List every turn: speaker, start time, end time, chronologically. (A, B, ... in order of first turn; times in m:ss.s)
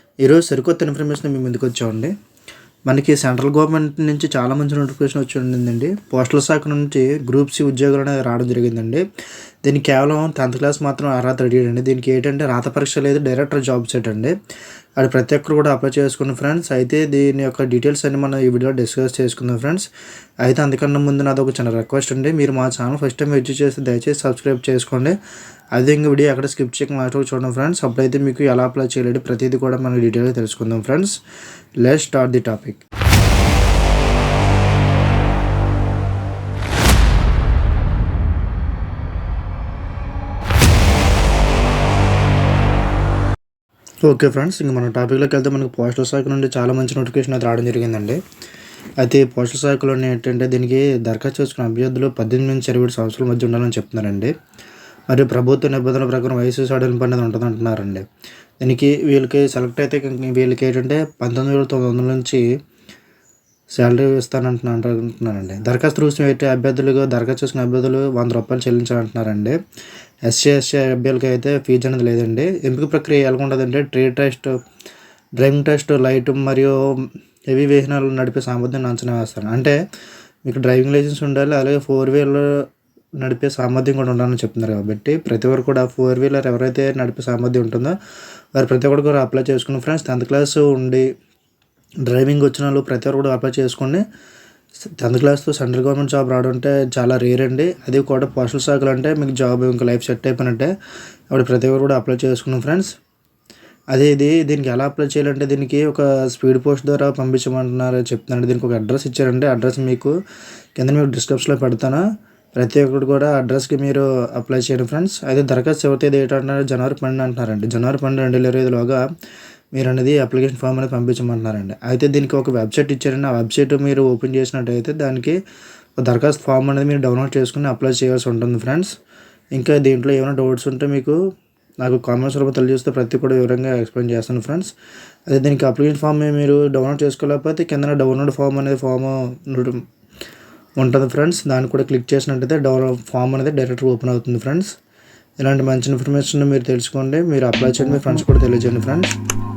0:00.2-0:02.1 A
0:02.9-0:09.0 A
0:09.6-0:14.4 A
0:15.0-0:19.9 A
0:20.4-0:25.2 A
0:25.8-0:31.2 A
0:31.8-0:32.8 A
0:44.0-0:48.2 A
0:49.0-0:54.3 A
0:55.1-0:58.0 A
0:58.6-1:02.4 A
1:03.8-1:09.6 A
1:10.3-1:14.5 A
1:15.4-1:16.8 A
1:17.5-1:19.8 A
1:20.4-1:22.5 A
1:23.2-1:28.0 A
1:28.6-1:31.1 A
1:32.0-1:34.0 A
1:35.0-1:40.7 A
1:41.3-1:42.9 A
1:43.9-1:50.2 A
1:50.8-1:52.0 A
1:52.6-1:59.0 A
1:59.8-2:05.4 A
2:06.0-2:08.9 A
2:09.6-2:11.2 A
2:11.8-2:14.7 A
2:15.3-2:19.8 A
2:20.8-2:24.7 A
2:25.4-2:29.1 A